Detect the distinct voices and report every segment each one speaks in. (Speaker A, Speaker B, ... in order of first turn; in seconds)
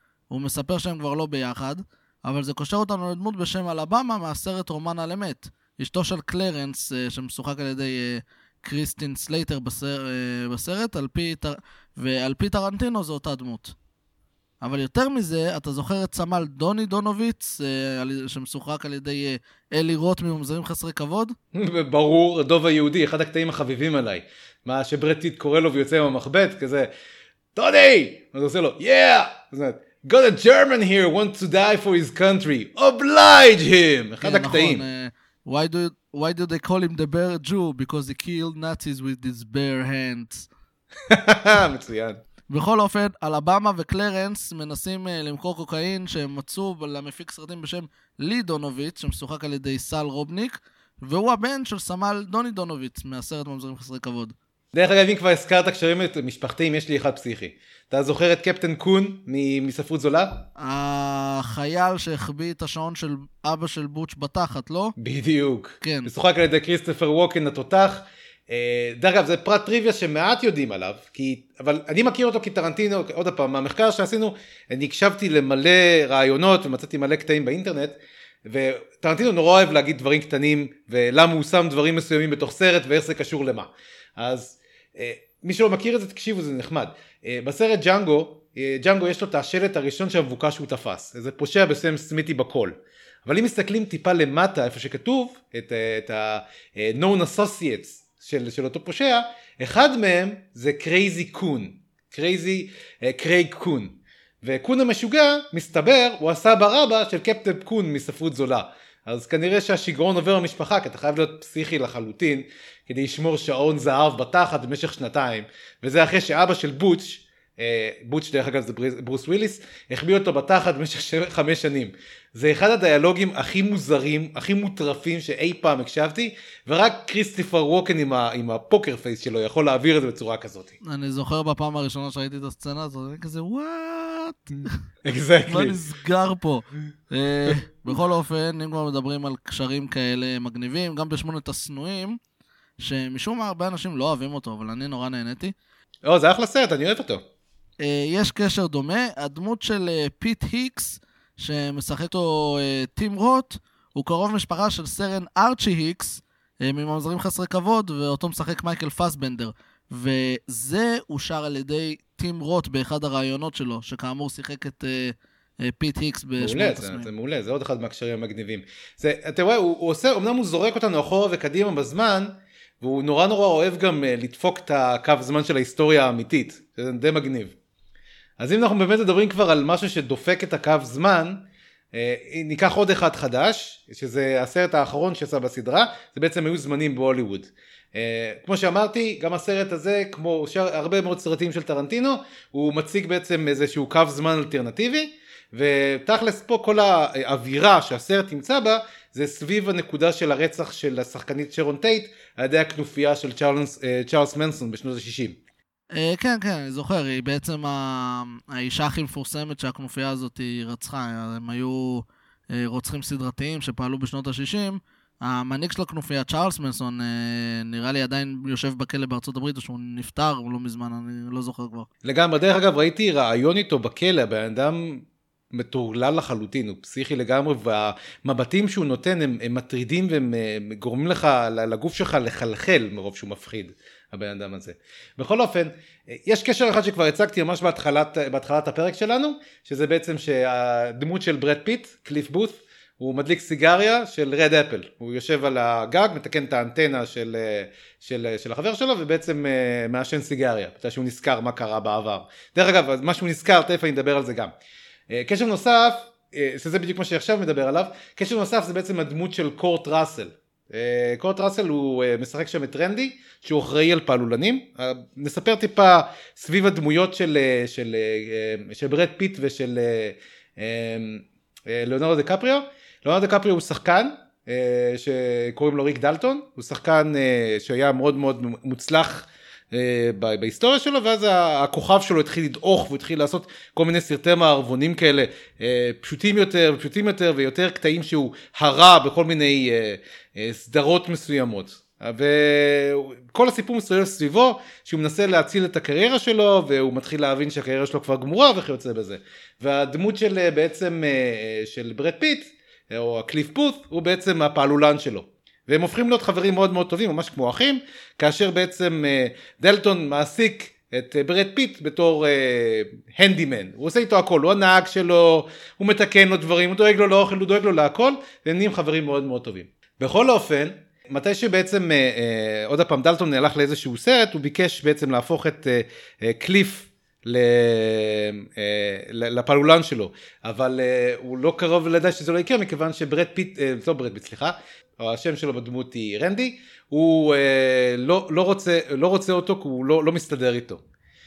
Speaker A: 0.3-13.7, 14.6-21.4, 34.2-40.5, 42.5-54.3, 60.6-64.9, 65.8-66.1, 130.8-134.8, 135.5-142.2, 142.8-145.5, 147.8-167.1, 205.9-221.9
Speaker B: 21.5-26.9, 27.5-34.8, 41.1-42.2, 54.7-60.4, 65.0-130.7, 135.0-135.8, 146.0-147.2, 166.4-177.5, 178.4-205.4, 222.0-254.5, 255.1-340.8